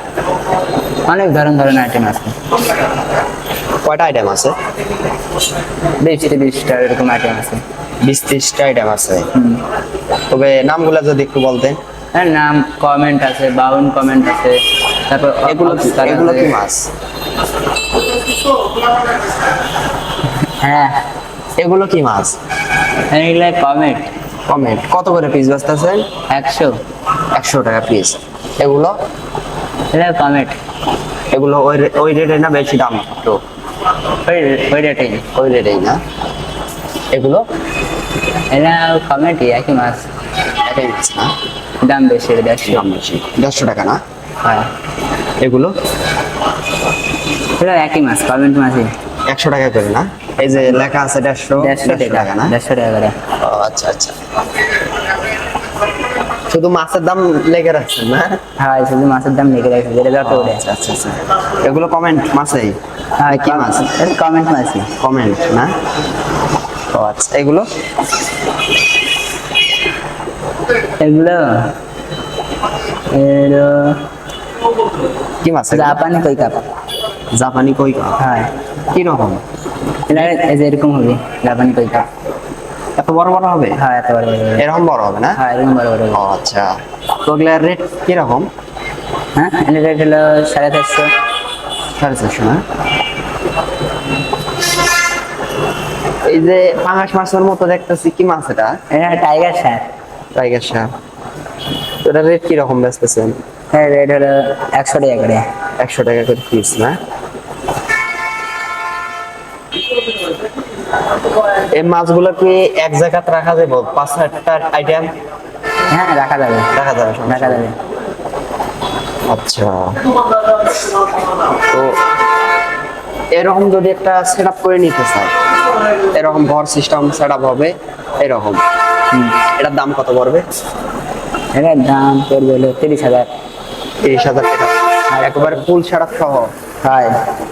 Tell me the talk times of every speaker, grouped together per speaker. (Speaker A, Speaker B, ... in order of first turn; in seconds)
Speaker A: 1.1-2.4, 6.0-7.6, 9.3-9.6, 12.1-14.6, 15.1-16.6, 20.6-20.9, 23.1-24.1, 26.3-26.8, 29.9-30.6, 34.3-35.2, 38.5-40.0, 41.8-42.9, 47.6-48.9, 50.6-50.9, 51.6-53.1, 58.6-60.6, 63.2-64.9, 71.0-71.7, 73.1-74.0, 75.7-76.7, 78.2-78.5, 80.1-82.1, 83.8-84.6, 85.4-86.2, 89.4-91.1, 98.9-99.8, 103.7-105.4, 115.9-116.7, 117.3-117.8, 129.1-129.4, 131.6-133.3, 135.1-135.6, 136.8-137.2
Speaker B: 3.9-4.6, 8.0-9.3, 10.3-11.8, 15.5-16.9, 21.6-22.4, 24.5-26.1, 27.4-28.9, 31.3-33.4, 35.3-36.0, 37.1-37.4, 40.6-41.3, 42.6-44.0, 45.4-45.7, 49.3-52.5, 53.4-54.1, 56.5-58.4, 60.2-63.9, 65.0-65.7, 66.9-67.7, 75.4-76.0, 77.3-78.2, 78.9-79.4, 83.0-83.8, 84.6-85.4, 86.1-88.5, 92.0-92.6, 96.3-98.8, 100.3-100.9, 102.0-103.4, 105.8-107.0, 111.8-115.1, 116.7-117.7, 119.3-120.0, 123.4-125.3, 126.1-128.6, 129.6-130.4, 134.0-136.5